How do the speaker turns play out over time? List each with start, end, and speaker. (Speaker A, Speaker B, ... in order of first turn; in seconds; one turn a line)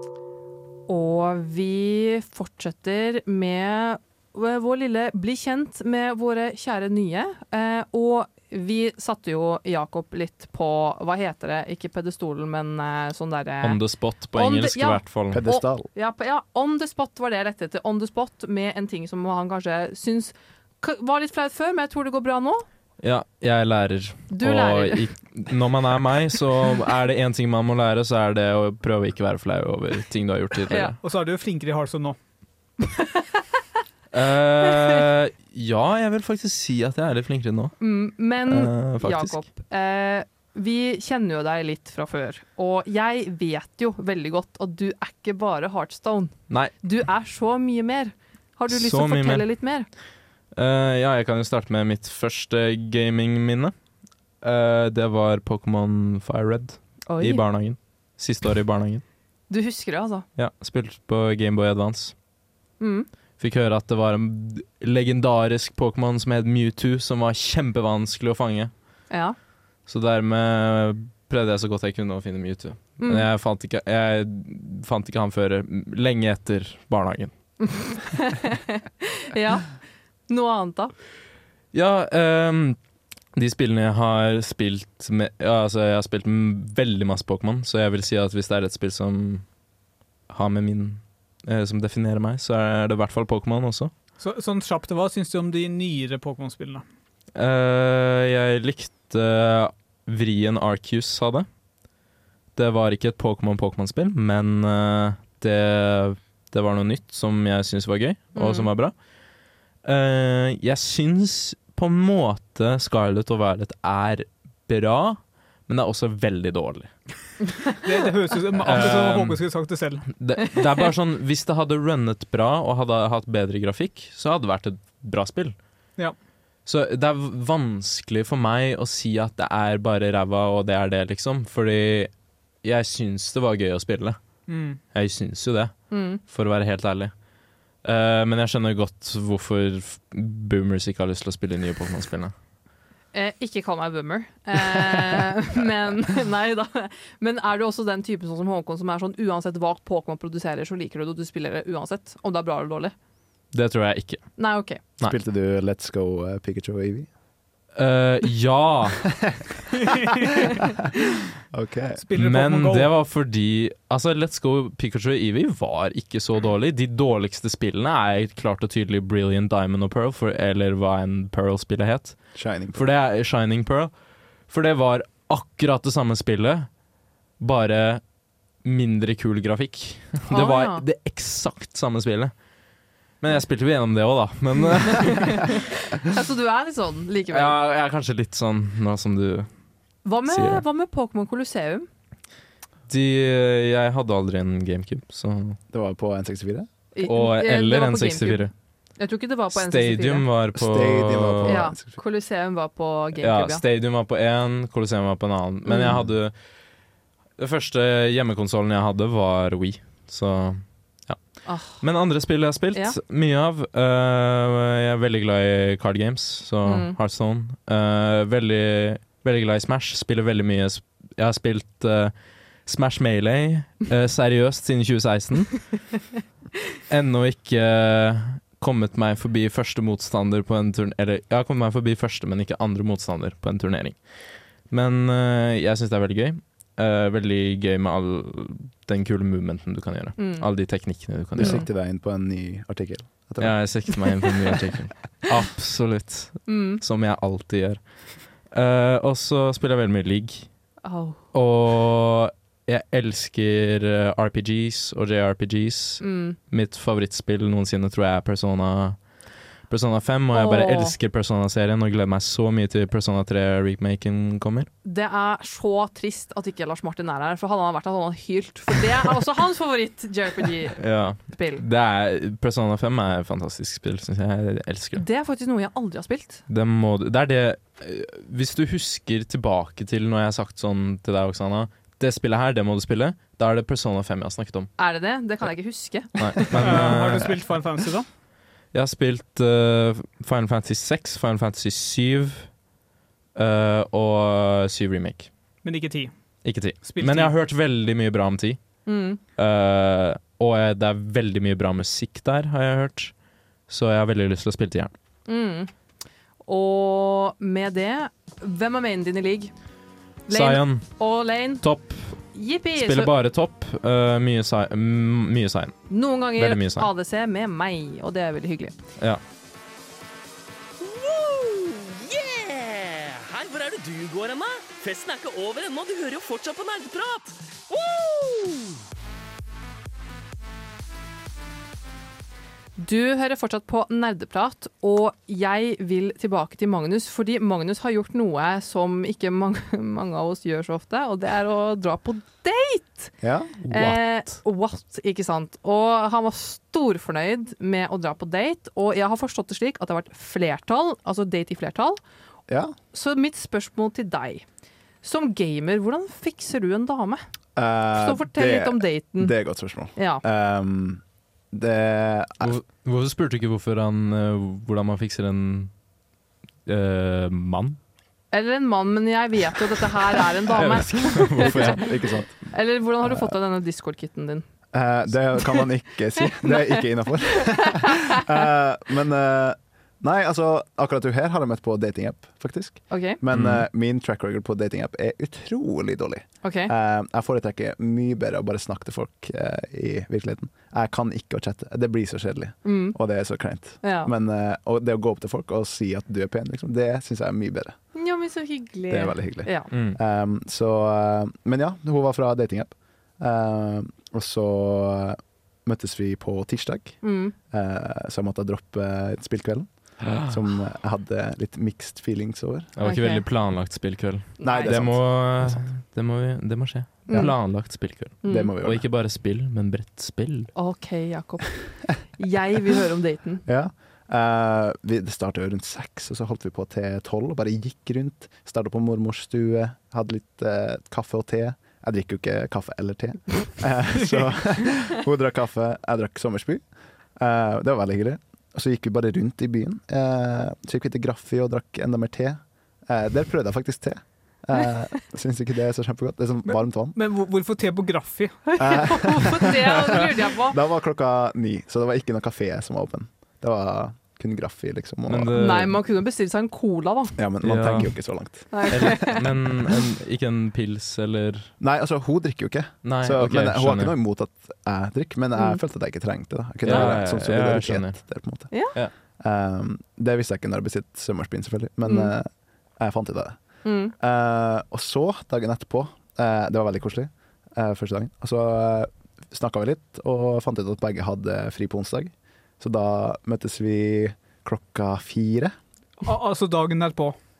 Speaker A: 0.9-13.8
Speaker B: 13.6-15.5
Speaker A: 14.3-22.6
Speaker C: 15.3-15.9
Speaker B: 23.0-31.0
Speaker A: 24.3-25.0
Speaker A: 30.7-30.9
Speaker D: 31.0-32.1
Speaker B: 34.1-37.7
Speaker A: 37.8-49.9
Speaker B: 38.5-39.4
Speaker B: 48.7-49.5
Speaker B: 50.5-53.7
Speaker B: 54.4-59.0
Speaker A: 57.1-57.4
Speaker A: 59.5-60.2
Speaker B: 60.4-62.1
Speaker A: 62.8-63.1
Speaker B: 63.4-68.7
Speaker A: 69.1-69.3
Speaker B: 69.9-77.3
Speaker A: 73.0-73.2
Speaker A: 77.6-79.7
Speaker A: 80.3-80.9
Speaker B: 81.7-82.8
Speaker B: 83.3-89.4
Speaker B: 90.3-93.9
Speaker D: 94.2-96.8
Speaker B: 97.3-101.5
Speaker B: 102.5-108.9
Speaker A: 108.3-108.7
Speaker B: 109.8-116.9
Speaker D: 117.8-120.0
Speaker B: 118.6-119.4
Speaker B: 120.1-125.5
Speaker B: 126.7-132.1
Speaker B: 132.6-134.2
Speaker D: 134.5-134.8
Speaker B: 134.9-137.1
Speaker A: 135.9-136.2
Speaker B: 137.8-142.3
Speaker A: 143.1-152.9
Speaker B: 153.5-154.3
Speaker A: 154.4-154.8
Speaker C: 155.0-157.1
Speaker B: 157.8-159.1
Speaker D: 159.8-160.5
Speaker C: 161.5-162.0
Speaker D: 162.0-162.9
Speaker B: 162.1-172.2
Speaker C: 172.3-172.8
Speaker B: 172.7-173.9
Speaker B: 174.5-176.7
Speaker B: 177.4-178.0
Speaker B: 178.6-182.3
Speaker A: 180.3-180.8
Speaker B: 183.2-185.6
Speaker A: 184.9-187.6
Speaker B: 187.3-189.5
Speaker A: 190.0-191.9
Speaker B: 190.3-190.6
Speaker B: 192.9-195.6
Speaker C: 195.7-196.7
Speaker A: 196.9-198.5
Speaker B: 197.0-198.5
Speaker A: 199.0-200.2
Speaker B: 199.5-201.6
Speaker C: 200.5-202.0
Speaker A: 201.4-203.6
Speaker B: 203.2-206.3
Speaker A: 205.7-206.0
Speaker B: 207.4-211.2
Speaker A: 211.4-211.8
Speaker B: 211.8-222.1
Speaker A: 216.6-216.9
Speaker B: 222.7-226.0
Speaker B: 226.9-234.0
Speaker B: 234.7-241.7
Speaker A: 240.2-240.4
Speaker C: 241.3-243.8
Speaker A: 241.4-241.7
Speaker B: 243.4-247.8
Speaker A: 246.5-246.8
Speaker B: 248.5-250.5
Speaker A: 250.8-251.2
Speaker B: 251.3-259.0
Speaker A: 256.0-256.4
Speaker B: 259.7-264.7
Speaker A: 260.3-260.9
Speaker A: 264.8-271.6
Speaker B: 270.8-275.0
Speaker A: 274.9-276.4
Speaker B: 276.5-284.7
Speaker A: 284.8-286.9
Speaker B: 286.2-287.4
Speaker D: 286.5-288.1
Speaker B: 288.7-292.5
Speaker B: 293.3-295.3
Speaker D: 295.6-296.1
Speaker B: 296.4-298.6
Speaker D: 296.8-297.3
Speaker A: 298.9-299.2
Speaker B: 299.4-303.1
Speaker B: 303.7-304.9
Speaker A: 305.3-305.7
Speaker A: 306.4-309.5
Speaker A: 310.3-311.6
Speaker B: 310.3-311.0
Speaker B: 311.6-312.2
Speaker A: 312.3-313.1
Speaker B: 312.7-315.8
Speaker A: 315.9-318.7
Speaker B: 316.3-316.9
Speaker E: 320.8-328.7
Speaker A: 332.8-343.1
Speaker C: 343.2-343.5
Speaker B: 343.6-344.3
Speaker A: 343.7-352.0
Speaker C: 352.5-352.7
Speaker A: 352.9-354.4
Speaker A: 355.0-357.2
Speaker C: 357.6-362.6
Speaker A: 357.9-359.3
Speaker A: 359.9-360.2
Speaker B: 362.4-365.7
Speaker B: 366.6-367.8
Speaker A: 368.3-371.9
Speaker B: 370.5-371.9
Speaker C: 371.4-372.3
Speaker A: 372.5-374.4
Speaker C: 374.7-397.8
Speaker A: 376.4-376.8
Speaker A: 377.6-378.2
Speaker A: 382.9-383.2
Speaker B: 383.3-383.6
Speaker A: 386.4-386.7
Speaker A: 392.6-392.9
Speaker A: 393.8-394.1
Speaker A: 397.9-399.7
Speaker C: 398.9-407.0
Speaker B: 399.7-400.0
Speaker A: 407.0-407.3
Speaker C: 407.5-409.7
Speaker C: 410.2-412.7
Speaker B: 412.8-420.5
Speaker A: 412.8-413.2
Speaker A: 414.4-414.7
Speaker C: 414.4-415.6
Speaker A: 417.1-417.4
Speaker A: 418.2-418.5
Speaker C: 418.2-418.9
Speaker A: 420.5-423.4
Speaker C: 423.4-436.6
Speaker C: 437.2-447.0
Speaker D: 446.4-448.4
Speaker A: 448.4-450.6
Speaker C: 448.6-455.4
Speaker B: 455.1-455.8
Speaker A: 455.4-457.2
Speaker C: 457.2-459.2
Speaker B: 457.4-457.9
Speaker A: 458.5-459.2
Speaker B: 458.7-461.5
Speaker C: 461.6-468.6
Speaker B: 462.8-463.9
Speaker A: 465.3-465.6
Speaker B: 466.6-468.0
Speaker A: 466.7-466.9
Speaker C: 469.2-473.4
Speaker A: 471.8-472.1
Speaker A: 473.6-473.9
Speaker C: 474.0-485.5
Speaker D: 486.0-487.1